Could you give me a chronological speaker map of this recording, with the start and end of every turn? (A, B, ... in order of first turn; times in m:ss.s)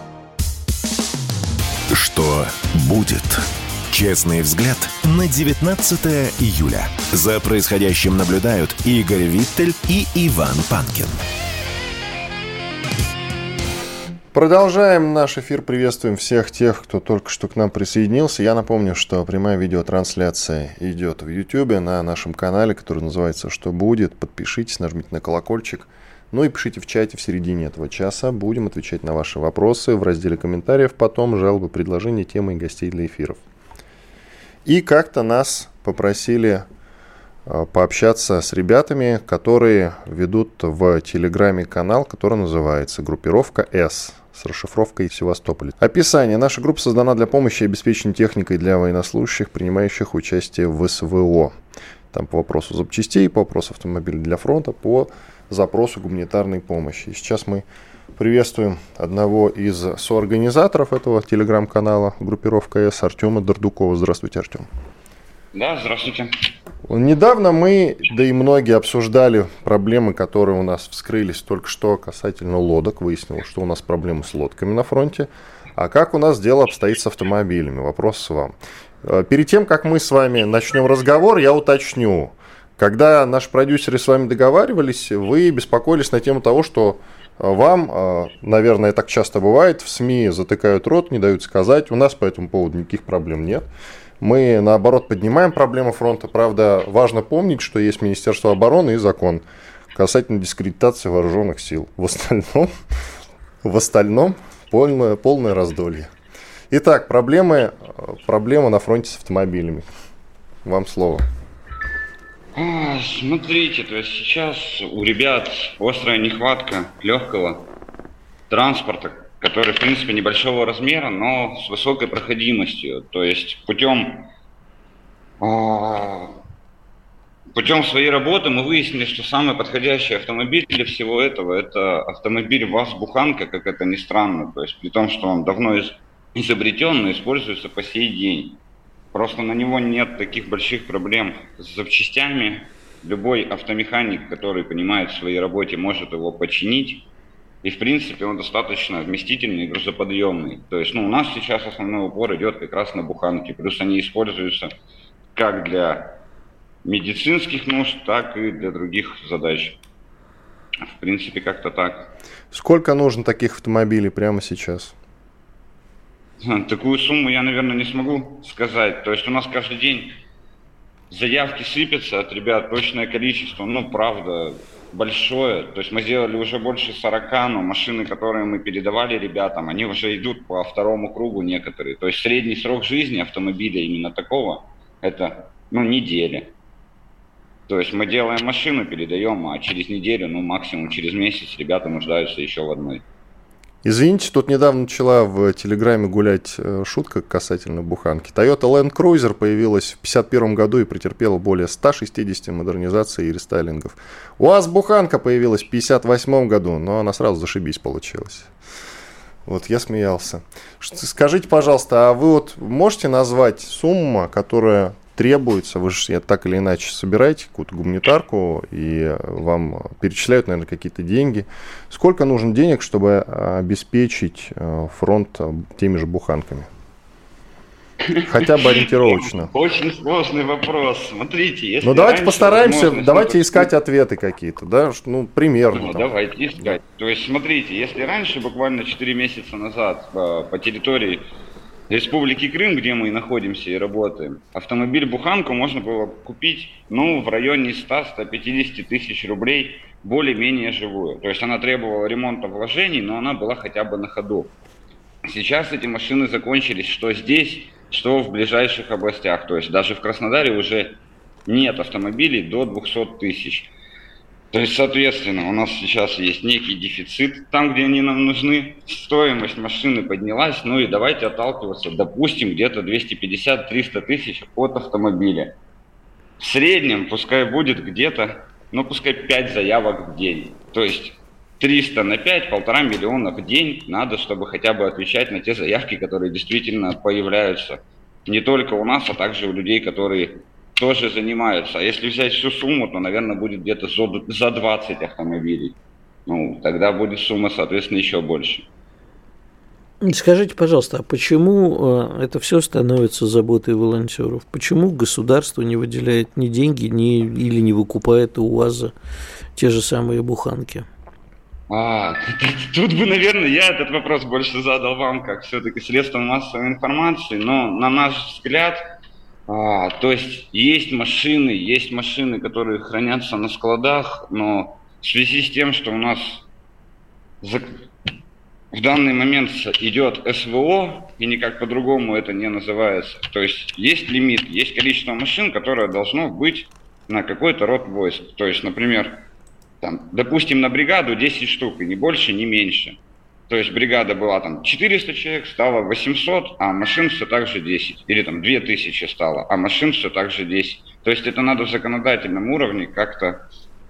0:01.9-0:11.2 A
0:14.3-0:33.4 B
0:34.6-0:36.6 B
0:37.4-0:51.6 B
0:52.1-0:57.6 B
0:58.2-1:04.7 B
1:05.5-1:06.3 C
1:06.9-1:33.7 B
1:34.2-1:39.4 B
1:39.9-1:42.7 B
1:43.6-1:46.1 B
1:46.7-1:49.8 B
1:50.6-1:51.2 B
1:52.5-1:57.7 C
1:58.5-2:04.3 C
2:05.4-2:06.4 C
2:07.5-2:18.6 C
2:19.1-2:27.1 C
2:27.6-2:34.7 C
2:35.3-2:36.2 C
2:36.8-2:39.8 C
2:40.8-2:42.1 C
2:42.5-2:44.9 B
2:46.4-2:50.2 C
2:51.1-3:06.5 C
3:07.7-3:13.0 C
3:13.8-3:28.5 B
3:29.4-3:46.7 B
3:48.0-3:53.7 C
3:48.2-3:49.5 B
3:51.8-3:56.1 B
3:55.7-4:01.3 C
4:01.9-4:14.5 C
4:15.2-4:23.7 C
4:24.5-4:35.5 C
4:36.4-4:55.7 C
4:56.3-4:58.7 C
5:00.0-5:08.9 D
5:09.6-5:10.9 D
5:11.7-5:18.8 C
5:19.5-5:26.4 C
5:27.4-5:27.8 C
5:28.7-5:39.2 C
5:39.8-5:53.4 C